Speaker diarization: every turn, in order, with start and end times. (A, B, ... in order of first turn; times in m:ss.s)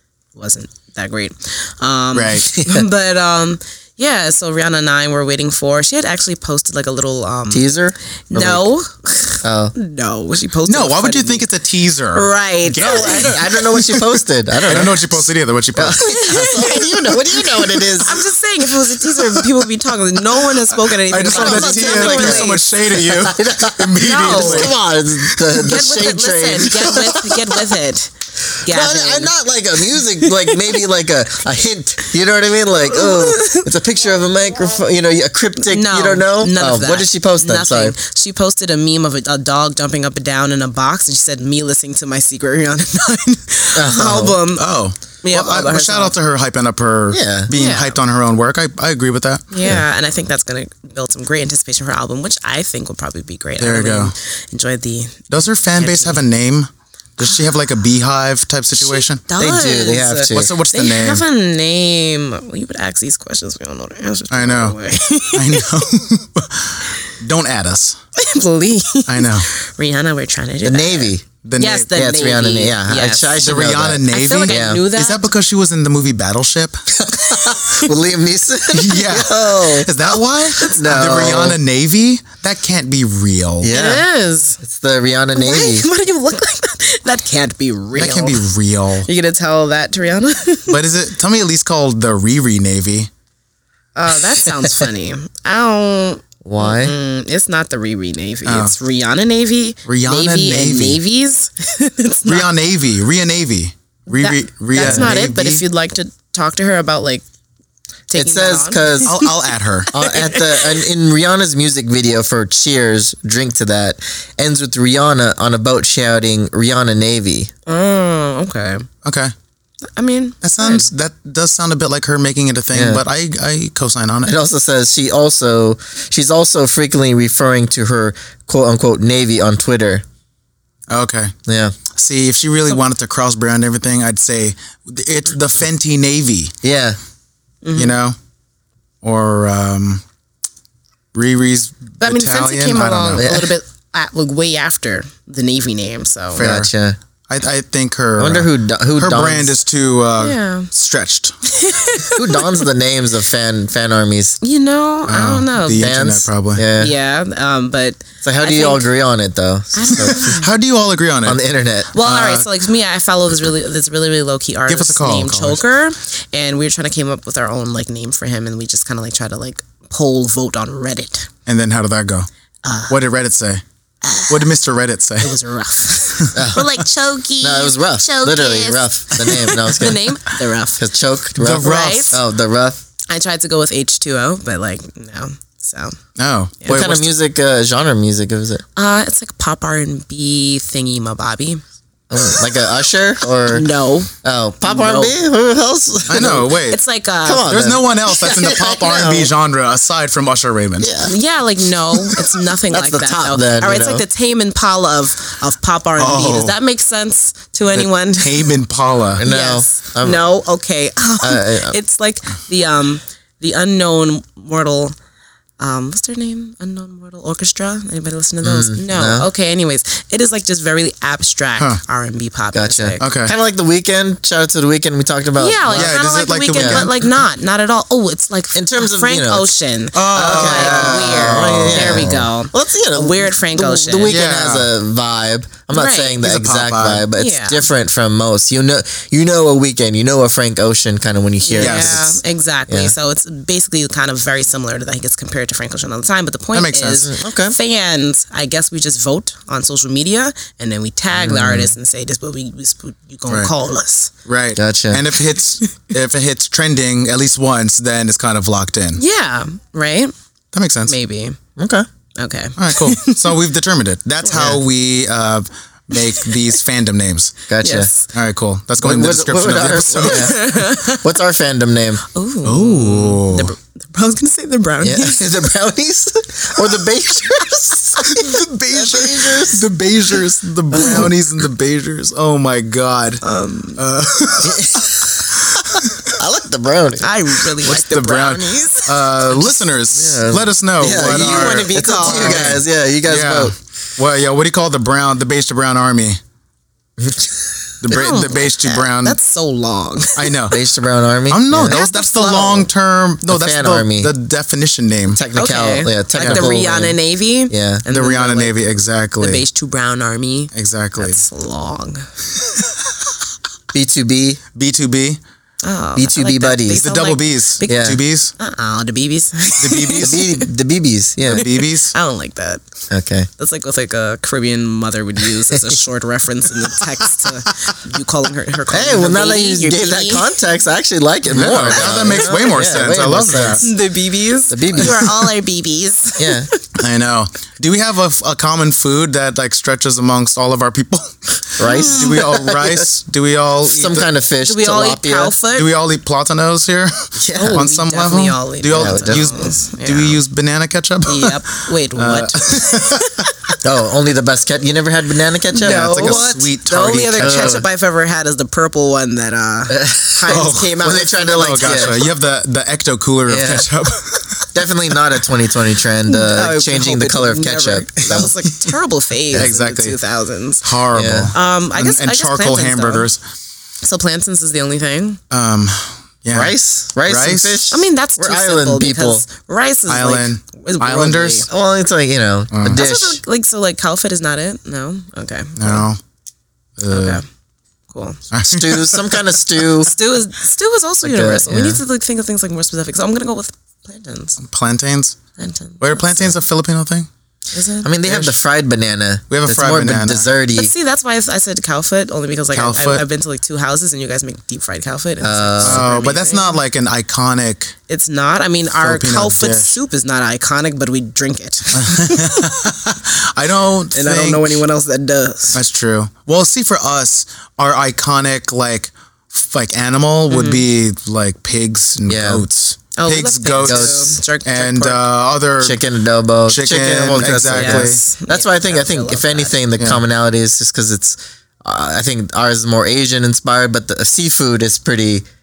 0:00.3-0:07.7 A
0:02.1-0:02.5 B
0:02.5-0:02.8 C
0:07.5-0:08.7 C
0:08.3-0:11.4 A
0:09.4-0:09.7 C
0:10.7-0:14.0 B
0:12.1-0:13.4 A
0:12.8-0:18.2 C
0:14.6-0:16.2 B
0:16.0-0:22.6 A
0:21.1-0:25.6 B
0:21.3-0:27.5 C
0:24.0-0:24.7 A
0:25.6-0:29.3 A
0:28.6-0:37.9 C
0:29.8-0:30.8 A
0:32.8-0:33.7 A
0:35.6-0:44.7 A
0:43.7-0:44.4 C
0:44.6-0:49.5 B
0:45.2-0:46.1 A
0:47.1-0:47.5 C
0:47.5-0:48.0 A
0:49.5-0:55.2 A
0:53.6-0:54.1 B
0:55.3-0:59.2 B
0:55.7-0:56.2 A
0:58.8-1:05.7 A
0:59.4-1:00.5 C
1:00.3-1:01.2 B
1:04.3-1:04.8 B
1:05.3-1:08.0 B
1:08.2-1:13.5 A
1:09.1-1:09.5 B
1:10.6-1:11.2 C
1:11.4-1:11.9 B
1:11.9-1:14.8 C
1:13.4-1:17.5 B
1:14.1-1:15.3 A
1:17.0-1:19.9 C
1:18.7-1:23.7 B
1:20.6-1:21.6 C
1:23.6-1:24.0 C
1:23.7-1:24.6 A
1:24.6-1:25.9 C
1:25.3-1:28.4 A
1:27.9-1:29.1 B
1:29.0-1:30.8 A
1:30.7-1:33.1 B
1:34.0-1:42.5 A
1:34.4-1:34.7 C
1:36.4-1:36.9 C
1:38.4-1:38.7 B
1:39.8-1:41.0 B
1:42.2-1:45.6 B
1:44.1-1:47.2 A
1:44.8-1:45.1 C
1:48.1-1:50.8 A
1:48.1-1:49.2 C
1:49.0-1:49.9 B
1:49.9-1:57.5 C
1:57.7-1:58.9 A
1:59.0-1:59.3 B
2:00.0-2:00.9 A
2:00.4-2:04.3 B
2:02.7-2:03.0 C
2:04.2-2:10.0 C
2:10.9-2:11.3 B
2:11.5-2:11.8 C
2:11.9-2:16.5 B
2:16.6-2:17.0 C
2:17.6-2:17.9 A
2:17.7-2:18.2 B
2:19.0-2:20.0 B
2:21.1-2:23.3 B
2:22.0-2:26.4 A
2:23.2-2:23.5 C
2:26.3-2:26.7 B
2:26.4-2:27.0 C
2:27.3-2:31.3 B
2:28.2-2:29.5 C
2:30.2-2:30.7 A
2:31.5-2:32.6 A
2:32.2-2:34.4 C
2:34.4-2:35.9 A
2:35.1-2:36.6 B
2:35.8-2:36.9 C
2:36.8-2:38.8 A
2:38.2-2:40.4 C
2:39.7-2:40.5 A
2:40.2-2:41.4 B
2:41.2-2:41.9 C
2:41.9-2:51.3 A
2:42.0-2:42.5 B
2:44.7-2:45.6 B
2:51.4-2:52.3 B
2:52.6-2:53.0 A
2:52.9-2:53.6 B
2:54.0-2:54.5 A
2:54.3-2:55.4 B
2:55.2-3:00.8 A
2:56.3-2:56.8 C
2:57.4-3:00.1 C
3:00.8-3:02.8 C
3:01.4-3:02.2 B
3:01.6-3:02.2 A
3:03.1-3:06.0 A
3:06.2-3:07.1 B
3:06.7-3:08.6 C
3:08.8-3:11.6 A
3:12.1-3:13.7 C
3:13.5-3:14.1 A
3:14.2-3:16.6 C
3:14.6-3:15.2 A
3:16.1-3:16.8 B
3:16.7-3:17.5 A
3:17.2-3:19.3 C
3:17.4-3:20.9 B
3:20.8-3:21.1 C
3:21.0-3:28.5 A
3:22.0-3:24.0 C
3:26.0-3:26.6 B
3:27.7-3:29.2 B
3:29.2-3:30.2 C
3:29.2-3:34.9 A
3:31.2-3:31.8 C
3:35.6-3:43.0 A
3:38.4-3:39.3 C
3:42.5-3:45.9 C
3:43.0-3:43.3 B
3:45.4-3:54.2 A
3:45.7-3:47.0 B
3:46.5-3:46.9 C
3:48.5-3:49.5 C
3:49.9-3:52.1 B
3:50.1-4:02.9 C
3:54.0-3:54.7 B
3:55.7-3:56.2 A
3:56.2-3:57.1 B
3:57.1-3:57.6 A
4:01.4-4:14.1 A
4:01.6-4:02.0 B
4:06.5-4:07.0 B
4:07.0-4:07.6 C
4:11.1-4:11.7 C
4:14.2-4:19.0 B
4:14.6-4:15.0 C
4:19.0-4:20.1 A
4:20.5-4:20.9 B
4:20.8-4:21.4 A
4:21.6-4:21.9 C
4:22.2-4:23.3 A
4:22.6-4:27.4 B
4:24.3-4:24.6 C
4:26.0-4:26.3 A
4:27.5-4:27.9 C
4:27.6-4:28.1 A
4:28.1-4:30.5 B
4:28.8-4:32.0 C
4:30.0-4:31.0 A
4:32.1-4:35.4 A
4:32.4-4:33.5 B
4:34.8-4:39.6 C
4:38.1-4:43.2 B
4:40.7-4:41.1 C
4:43.2-4:43.8 A
4:43.8-4:46.1 B
4:44.4-4:45.3 C
4:46.1-4:47.1 C
4:47.0-4:49.6 A
4:47.6-4:56.2 B
4:49.9-4:53.5 C
4:50.8-4:52.6 A
4:57.0-4:57.7 C
4:57.8-4:59.2 B
4:57.9-5:00.3 A
5:00.2-5:00.6 B
5:00.5-5:01.8 C
5:01.3-5:05.2 B
5:01.6-5:02.7 A
5:03.3-5:04.1 C
5:05.1-5:07.0 C
5:05.3-5:08.6 A
5:06.2-5:06.5 B
5:07.5-5:07.8 C
5:07.9-5:09.4 B
5:09.2-5:12.0 A
5:10.5-5:11.2 B
5:13.7-5:14.4 C
5:14.5-5:15.2 B
5:15.6-5:17.8 A
5:16.0-5:16.8 C
5:16.8-5:18.3 B
5:17.6-5:18.0 C
5:18.4-5:20.5 A
5:19.6-5:20.3 B
5:20.0-5:21.4 C
5:21.3-5:21.9 B
5:21.3-5:22.6 A
5:22.9-5:23.3 C
5:23.4-5:30.3 A
5:28.7-5:33.7 C
5:31.3-5:33.6 B
5:31.7-5:32.6 A
5:33.6-5:36.6 A
5:34.5-5:35.3 C
5:36.2-5:36.5 C
5:36.8-5:44.1 B
5:41.6-5:42.9 C
5:41.6-5:42.3 A
5:43.6-5:45.3 C
5:44.4-5:45.7 A
5:45.5-5:53.5 B
5:47.2-5:47.6 C
5:47.3-5:50.2 A
5:48.7-5:49.3 C
5:51.0-5:53.3 A
5:53.6-5:56.2 C
5:55.5-6:02.0 A
5:55.6-5:57.6 B
5:57.2-5:57.6 C
5:59.7-6:02.0 C
6:00.3-6:04.5 B
6:03.3-6:03.7 C
6:04.5-6:08.3 C
6:06.0-6:10.6 A
6:09.3-6:10.0 B
6:10.6-6:13.2 B
6:10.9-6:11.3 C
6:11.3-6:13.0 A
6:13.8-6:15.2 A
6:15.3-6:17.6 B
6:16.3-6:19.2 C
6:17.7-6:21.5 A
6:19.9-6:21.5 B
6:21.5-6:23.2 C
6:22.5-6:22.8 B
6:22.7-6:25.8 A
6:25.6-6:26.0 B
6:26.8-6:27.2 B
6:26.9-6:27.2 A
6:27.9-6:28.2 A
6:28.3-6:29.3 B
6:28.4-6:29.9 C
6:29.8-6:34.4 A
6:31.0-6:31.8 C
6:34.4-6:35.2 B
6:35.4-6:36.3 A
6:35.8-6:37.1 B
6:37.5-6:37.9 A
6:37.8-6:40.7 C
6:38.0-6:38.4 B
6:39.3-6:40.3 B
6:40.5-6:46.6 A
6:42.5-6:43.0 B
6:45.2-6:45.8 C
6:45.6-6:47.8 B
6:47.9-6:52.5 A
6:48.8-6:49.7 B
6:51.7-6:54.6 B
6:53.9-6:55.6 A
6:55.5-7:05.8 B
7:00.3-7:00.6 A
7:02.1-7:02.4 C
7:03.0-7:05.0 A
7:03.6-7:04.1 C
7:05.6-7:15.2 C
7:06.5-7:08.0 B
7:07.5-7:09.6 A
7:09.8-7:10.0 B